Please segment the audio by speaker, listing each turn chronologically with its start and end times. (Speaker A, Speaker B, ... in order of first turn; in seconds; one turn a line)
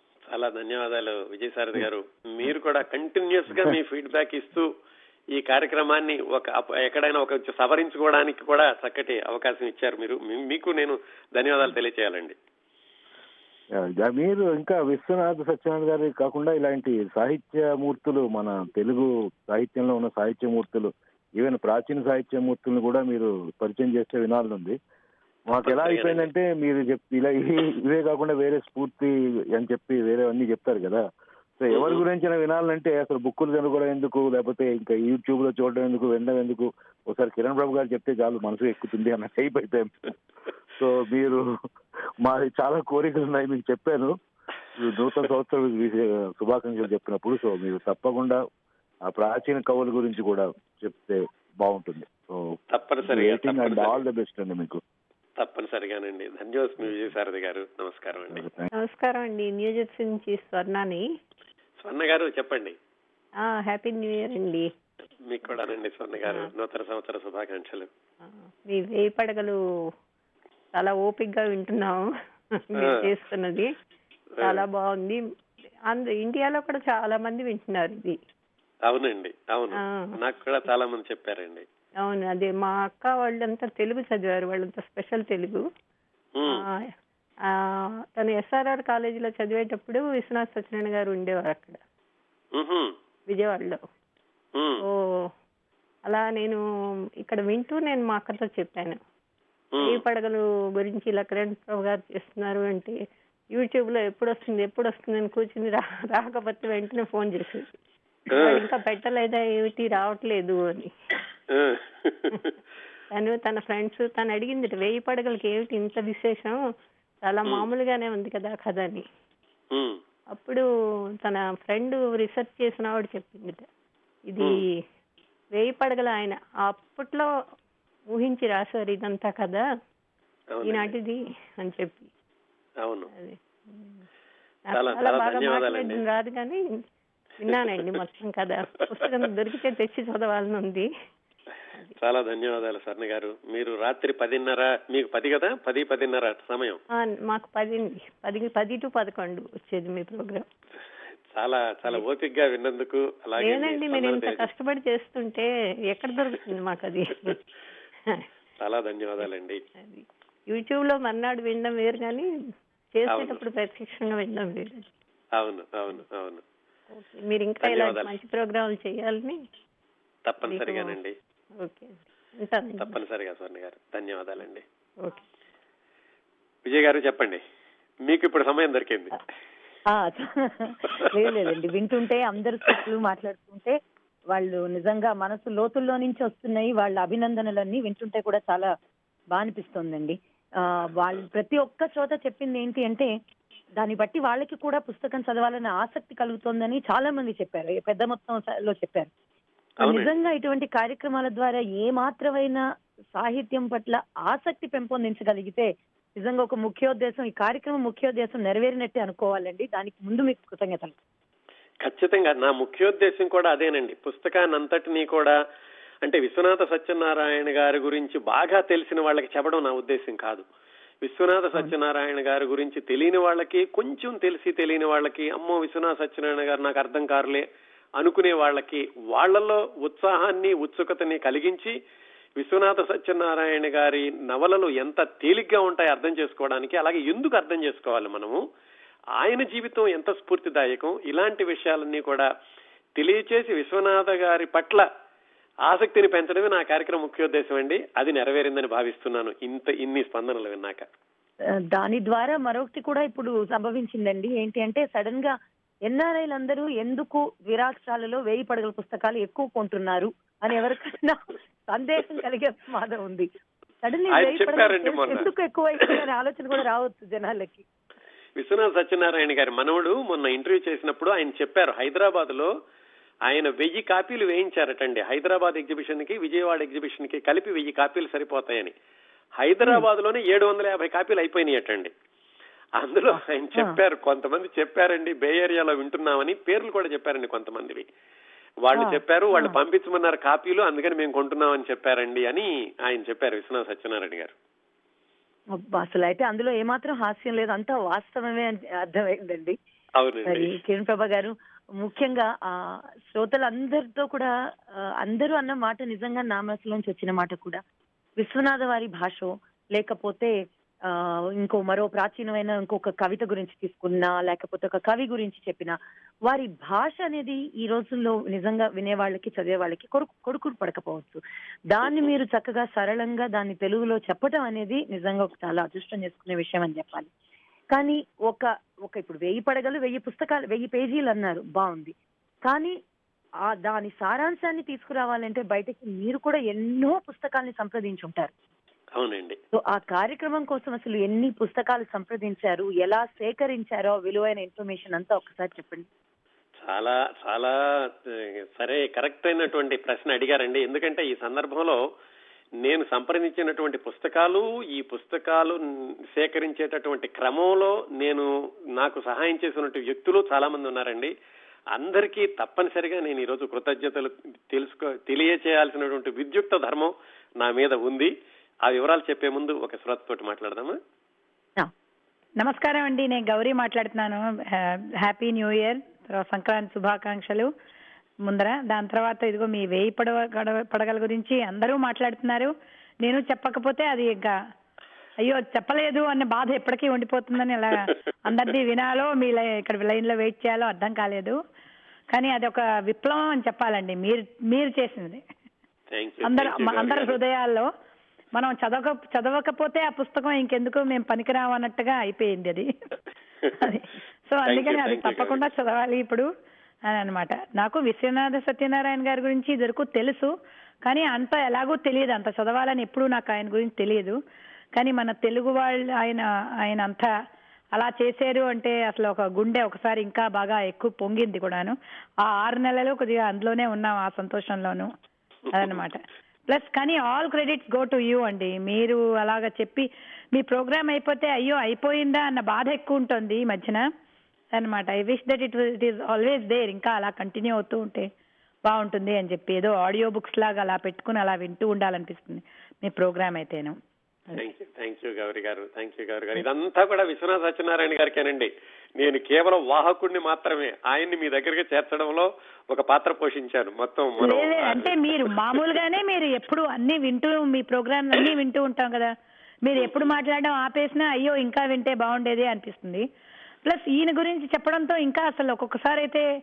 Speaker A: 0.3-4.7
Speaker A: 5.4-12.4
Speaker B: 13.8-24.8
Speaker B: 25.5-31.0
Speaker A: 25.5-26.3
Speaker B: 31.6-40.1
Speaker A: 31.7-32.0
Speaker B: 40.8-41.4
Speaker B: 42.2-44.1
Speaker B: 44.8-48.4
Speaker B: 49.1-54.8
Speaker A: 52.7-54.0
Speaker A: 55.4-58.5
Speaker B: 58.3-58.7
Speaker C: 58.8-61.0
Speaker A: 61.8-62.8
Speaker C: 63.4-64.7
Speaker A: 65.2-67.9
Speaker C: 66.2-66.5
Speaker C: 68.2-69.6
Speaker C: 70.8-73.7
Speaker A: 72.8-73.1
Speaker C: 74.4-75.2
Speaker C: 75.9-78.2
Speaker A: 78.9-81.6
Speaker C: 79.8-80.2
Speaker C: 82.0-85.6
Speaker A: 86.4-86.6
Speaker C: 88.2-91.8
Speaker A: 92.5-92.9
Speaker C: 93.3-93.8
Speaker A: 94.6-94.8
Speaker C: 96.1-96.6
Speaker C: 97.2-99.0
Speaker A: 99.7-100.0
Speaker C: 99.8-103.0
Speaker C: 103.5-107.8
Speaker C: 108.3-110.9
Speaker A: 108.3-108.6
Speaker A: 111.5-112.5
Speaker C: 113.1-116.6
Speaker C: 117.2-119.1
Speaker A: 119.7-120.0
Speaker C: 120.3-120.6
Speaker C: 121.2-123.7
Speaker C: 124.3-124.6
Speaker C: 125.5-127.3
Speaker C: 128.1-129.6
Speaker A: 130.5-130.9
Speaker C: 130.6-132.1
Speaker A: 132.8-133.1
Speaker C: 133.1-134.0
Speaker C: 134.7-136.6
Speaker A: 134.7-136.0
Speaker C: 137.4-140.9
Speaker A: 142.0-146.8
Speaker C: 147.0-150.4
Speaker A: 151.3-154.5
Speaker C: 153.4-157.4
Speaker A: 158.6-159.6
Speaker C: 159.2-162.3
Speaker C: 162.9-164.9
Speaker A: 163.1-163.4
Speaker A: 165.4-166.4
Speaker C: 166.9-169.4
Speaker A: 167.6-168.1
Speaker A: 170.3-171.1
Speaker C: 170.5-171.0
Speaker C: 171.6-173.0
Speaker A: 172.8-174.6
Speaker A: 176.7-177.4
Speaker A: 178.1-179.1
Speaker D: 179.9-183.8
Speaker D: 184.3-188.7
Speaker D: 189.3-193.1
Speaker D: 193.8-199.1
Speaker A: 199.8-200.1
Speaker D: 199.8-202.6
Speaker D: 203.1-210.9
Speaker A: 211.8-215.3
Speaker A: 216.0-220.4
Speaker A: 221.0-227.4
Speaker A: 228.0-231.7
Speaker A: 232.4-238.4
Speaker A: 239.2-242.3
Speaker A: 243.0-244.9
Speaker A: 245.7-250.9
Speaker D: 251.7-255.3
Speaker D: 255.9-263.3
Speaker D: 263.8-267.6
Speaker A: 264.1-265.3
Speaker A: 268.4-272.5
Speaker A: 273.3-278.7
Speaker A: 279.4-281.9
Speaker A: 282.8-287.9
Speaker A: 288.6-294.3
Speaker D: 288.7-289.6
Speaker D: 295.6-299.6
Speaker A: 300.0-300.5
Speaker D: 300.2-307.6
Speaker D: 308.2-327.1
Speaker D: 327.7-331.9
Speaker D: 332.4-332.8
Speaker D: 333.5-338.3
Speaker A: 339.0-339.4
Speaker D: 339.5-345.9
Speaker A: 346.6-347.5
Speaker A: 348.1-351.8
Speaker A: 352.6-355.6
Speaker A: 356.1-361.1
Speaker A: 361.8-368.1
Speaker A: 368.6-370.8
Speaker E: 372.4-377.5
Speaker E: 378.2-382.5
Speaker E: 383.0-384.4
Speaker E: 385.2-391.4
Speaker E: 392.1-395.2
Speaker A: 395.9-397.1
Speaker E: 396.2-397.7
Speaker E: 398.4-402.7
Speaker E: 403.5-406.3
Speaker A: 404.4-405.5
Speaker E: 406.9-410.3
Speaker E: 410.9-414.2
Speaker E: 414.8-417.1
Speaker E: 417.8-424.9
Speaker E: 425.5-433.8
Speaker E: 434.6-438.1
Speaker E: 438.7-443.8
Speaker A: 444.4-454.9
Speaker E: 454.2-459.1
Speaker E: 459.6-463.0
Speaker A: 459.8-460.1
Speaker E: 463.6-466.2